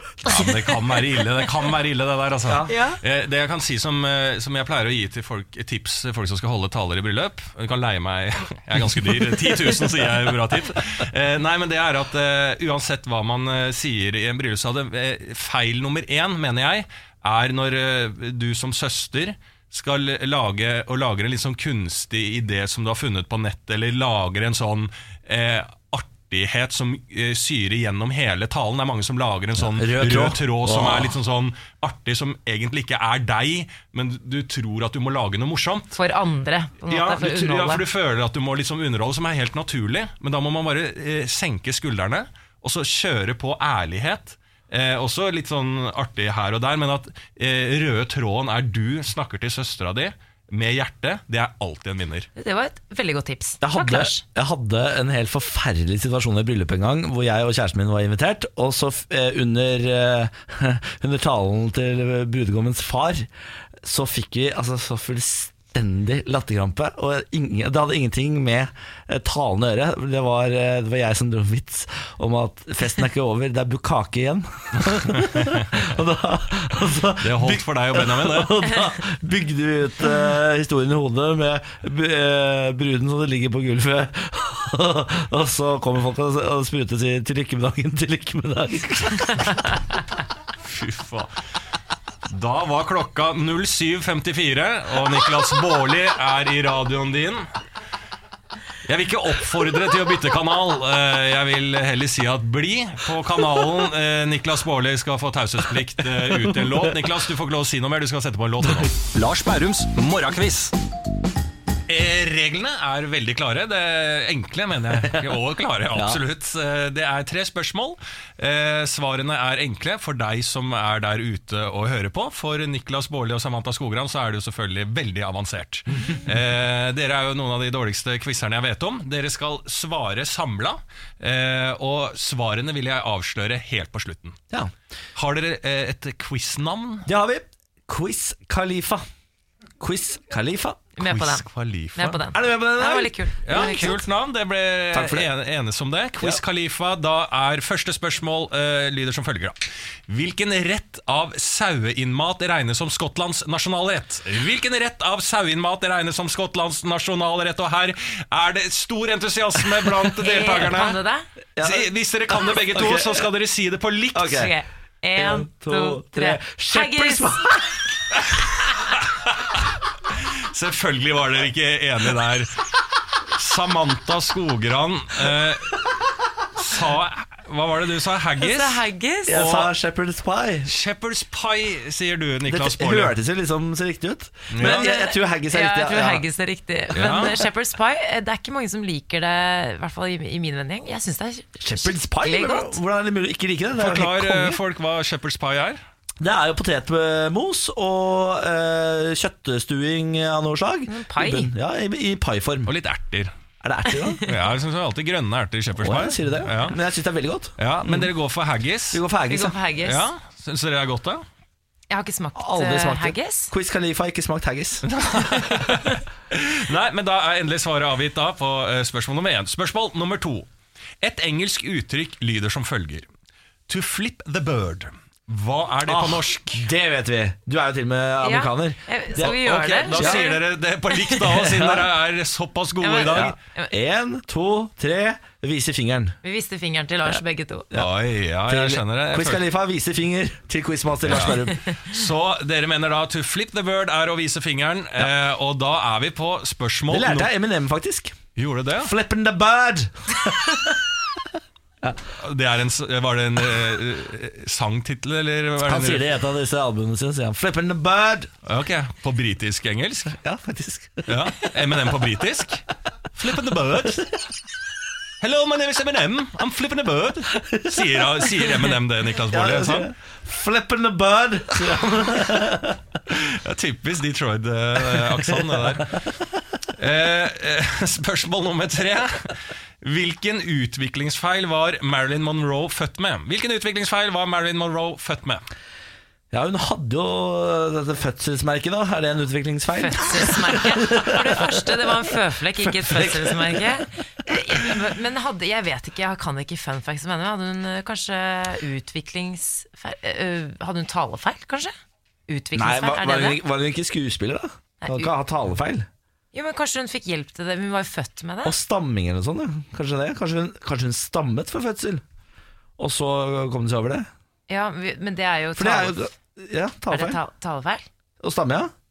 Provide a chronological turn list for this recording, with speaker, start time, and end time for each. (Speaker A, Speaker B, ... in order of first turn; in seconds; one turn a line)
Speaker A: 0.2-36.0
Speaker B: 2.5-2.7
Speaker B: 29.6-31.1
Speaker C: 35.9-37.8
Speaker A: 36.9-52.3
Speaker C: 52.4-54.2
Speaker B: 53.6-63.3
Speaker B: 63.8-89.6
Speaker A: 77.2-78.6
Speaker A: 90.6-91.3
Speaker A: 92.3-97.5
Speaker A: 98.9-110.7
Speaker A: 111.9-134.4
Speaker B: 115.0-115.3
Speaker B: 115.9-116.2
Speaker A: 135.2-137.1
Speaker B: 137.1-139.1
Speaker B: 139.8-140.8
Speaker C: 141.0-144.0
Speaker A: 141.0-142.2
Speaker B: 142.3-144.0
Speaker A: 143.4-161.0
Speaker B: 144.9-145.3
Speaker C: 160.2-161.2
Speaker B: 161.6-163.2
Speaker A: 161.6-164.4
Speaker B: 164.1-164.5
Speaker C: 164.3-167.6
Speaker B: 165.2-167.8
Speaker A: 169.2-169.6
Speaker A: 170.5-172.5
Speaker A: 173.3-175.8
Speaker A: 176.6-179.7
Speaker C: 178.4-179.4
Speaker B: 179.3-180.7
Speaker A: 180.7-183.1
Speaker B: 182.5-186.2
Speaker A: 184.5-184.9
Speaker C: 184.6-192.8
Speaker A: 186.9-187.4
Speaker B: 191.6-194.6
Speaker A: 193.8-195.8
Speaker B: 196.2-202.7
Speaker C: 200.9-201.5
Speaker A: 202.7-203.3
Speaker B: 203.6-204.2
Speaker C: 203.9-204.4
Speaker A: 204.2-206.8
Speaker B: 205.8-208.1
Speaker A: 207.6-209.0
Speaker B: 208.9-209.6
Speaker C: 209.3-210.1
Speaker A: 209.8-211.2
Speaker C: 211.9-213.5
Speaker B: 212.3-214.8
Speaker A: 214.8-220.5
Speaker A: 221.0-223.1
Speaker A: 223.7-226.7
Speaker B: 225.9-230.2
Speaker C: 228.2-230.4
Speaker A: 229.2-233.3
Speaker C: 230.9-231.2
Speaker B: 231.4-231.9
Speaker C: 232.8-233.7
Speaker B: 233.1-236.2
Speaker C: 236.2-237.7
Speaker A: 237.7-239.4
Speaker B: 238.5-241.6
Speaker A: 241.1-247.3
Speaker B: 246.9-248.2
Speaker A: 248.3-248.9
Speaker B: 248.8-250.6
Speaker A: 252.2-256.1
Speaker B: 255.6-258.3
Speaker A: 258.4-260.2
Speaker B: 260.1-261.4
Speaker A: 261.1-264.1
Speaker A: 265.2-269.9
Speaker B: 269.3-272.8
Speaker A: 273.1-276.0
Speaker B: 275.3-275.6
Speaker A: 276.8-285.4
Speaker B: 286.3-291.8
Speaker C: 289.7-301.7
Speaker B: 292.8-293.6
Speaker B: 294.3-294.6
Speaker C: 302.3-303.4
Speaker B: 302.5-305.9
Speaker C: 304.8-305.1
Speaker C: 306.3-308.6
Speaker B: 308.4-312.0
Speaker B: 312.8-314.1
Speaker C: 314.5-316.1
Speaker B: 315.6-317.2
Speaker C: 316.9-317.8
Speaker B: 318.2-318.7